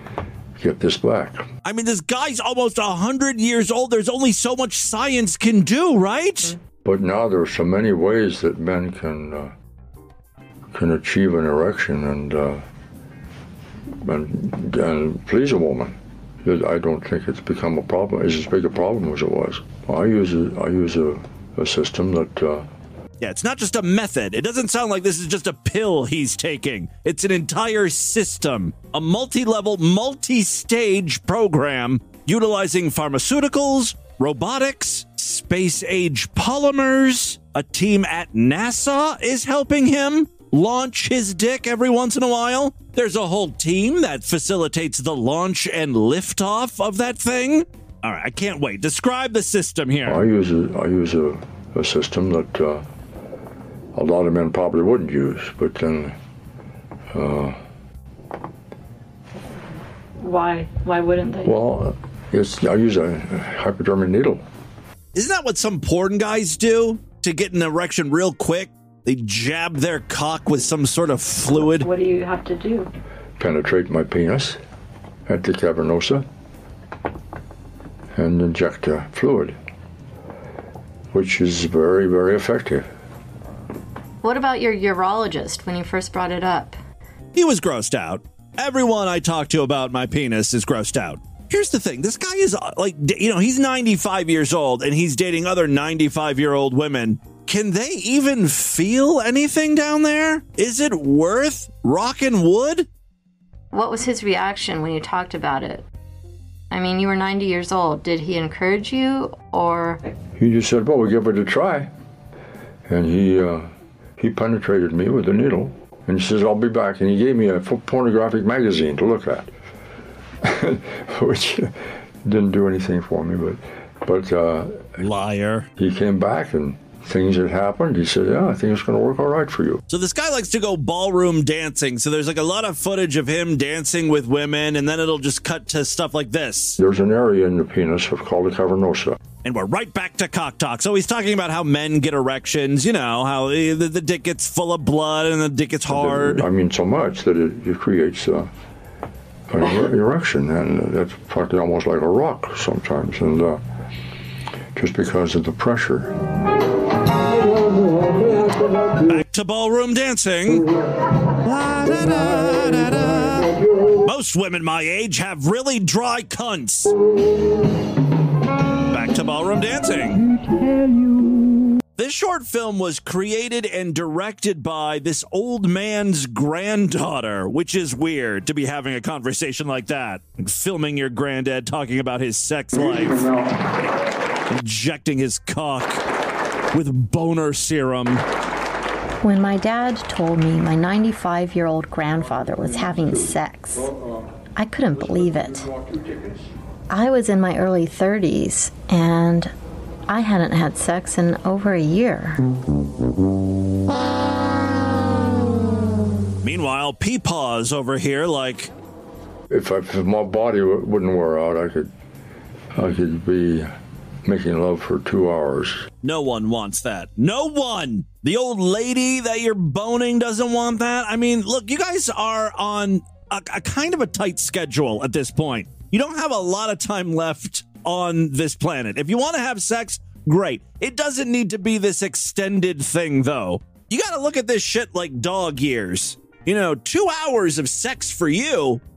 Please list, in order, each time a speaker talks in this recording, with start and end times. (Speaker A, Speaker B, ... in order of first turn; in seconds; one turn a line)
Speaker A: 0.6-1.4
Speaker B: 1.6-6.5
Speaker A: 6.8-9.5
Speaker A: 10.7-12.6
Speaker A: 14.0-22.6
Speaker B: 23.2-50.2
Speaker A: 50.0-52.9
Speaker A: 53.9-56.1
Speaker A: 57.1-57.6
Speaker C: 60.2-61.5
Speaker A: 61.4-64.4
Speaker B: 65.1-71.9
Speaker C: 71.6-72.9
Speaker A: 73.4-74.6
Speaker A: 75.2-76.2
Speaker A: 78.1-79.5
Speaker A: 81.1-82.9
Speaker D: 84.2-86.8
Speaker B: 87.3-102.9
Speaker D: 103.7-105.9
Speaker D: 106.7-110.0
Speaker A: 110.4-111.9
Speaker A: 112.9-119.5
Speaker A: 120.4-125.0
Speaker B: 125.0-125.7
Speaker A: 125.8-129.8
Speaker B: 129.9-136.8
Speaker A: 136.8-139.2
Speaker B: 139.4-146.4
Speaker A: 145.9-148.5
Speaker A: 149.5-153.6
Speaker A: 154.7-156.1
Speaker B: 158.2-158.5
Speaker B: 159.1-160.6
Speaker B: 161.4-166.9
Speaker B: 168.9-170.2
Speaker B: 171.9-183.3
Speaker B: 184.5-186.0
Speaker B: 186.7-188.2
Speaker D: 189.2-193.9
Speaker D: 194.6-195.7
Speaker D: 196.9-199.5
Speaker D: 200.1-202.4
Speaker B: 206.4-208.7
Speaker A: 209.5-211.9
Speaker A: 212.7-213.7
Speaker A: 214.2-215.8
Speaker B: 216.0-238.8